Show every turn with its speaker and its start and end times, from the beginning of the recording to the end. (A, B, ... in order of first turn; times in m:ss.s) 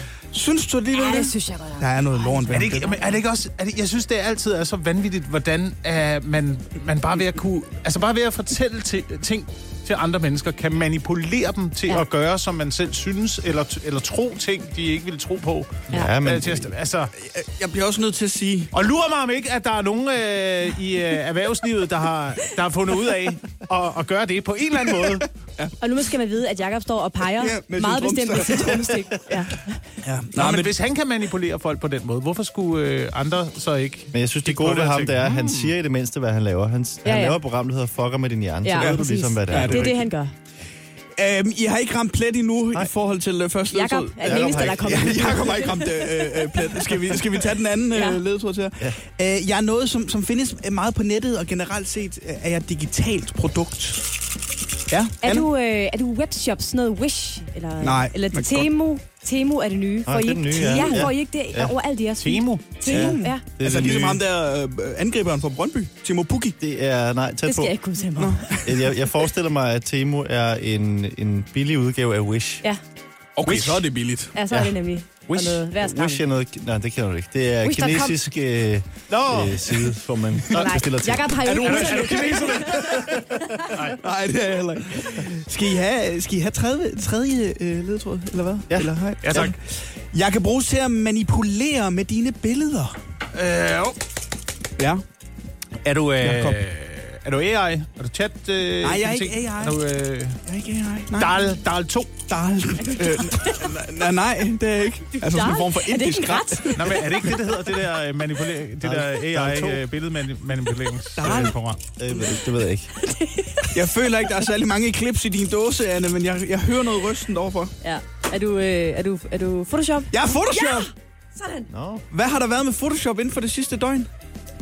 0:00.3-0:03.0 A
0:00.9-0:02.9 B
0:02.5-0:17.1 C
0:15.9-0:16.7 D
0:17.2-0:18.7 A
0:18.7-0:25.3 C
0:25.8-0:29.8 B
0:27.3-0:28.9 A
0:30.0-0:30.7 A
0:30.4-0:35.7 C
0:34.1-0:40.0 D
0:37.0-0:37.4 B
0:38.6-0:40.3 B
0:38.8-0:39.9 A
0:41.2-0:54.0 A
0:43.7-0:46.9 B
0:44.2-0:45.3 D
0:47.9-0:48.2 B
0:54.9-0:55.5 A
0:55.2-1:03.4 B
0:57.8-0:58.7 A
1:00.1-1:01.7 D
1:00.5-1:01.1 A
1:02.2-1:02.6 C
1:02.8-1:06.6 A
1:02.9-1:04.2 D
1:06.6-1:07.7 D
1:07.5-1:08.5 B
1:08.2-1:09.0 A
1:08.5-1:12.6 D
1:13.4-1:14.4 A
1:13.5-1:13.9 C
1:14.3-1:16.2 B
1:15.3-1:21.4 D
1:17.6-1:18.2 B
1:19.1-1:19.8 C
1:20.5-1:22.9 B
1:21.4-1:33.0 A
1:21.5-1:24.0 C
1:28.7-1:29.5 D
1:29.2-1:29.6 C
1:33.3-1:34.0 C
1:34.8-1:35.0 A
1:35.8-1:40.4 C
1:36.2-1:36.6 A
1:38.8-1:39.8 A
1:40.5-1:41.4 A
1:41.1-1:42.2 C
1:42.3-1:46.9 A
1:42.8-1:43.6 B
1:45.2-1:47.0 B
1:46.8-1:51.8 C
1:48.8-1:49.8 D
1:51.2-1:51.6 A
1:52.0-1:52.9 D
1:53.0-1:53.8 B
1:53.7-1:57.7 A
1:57.8-2:01.7 B
2:00.1-2:00.9 A
2:01.7-2:02.0 D
2:02.1-2:04.1 A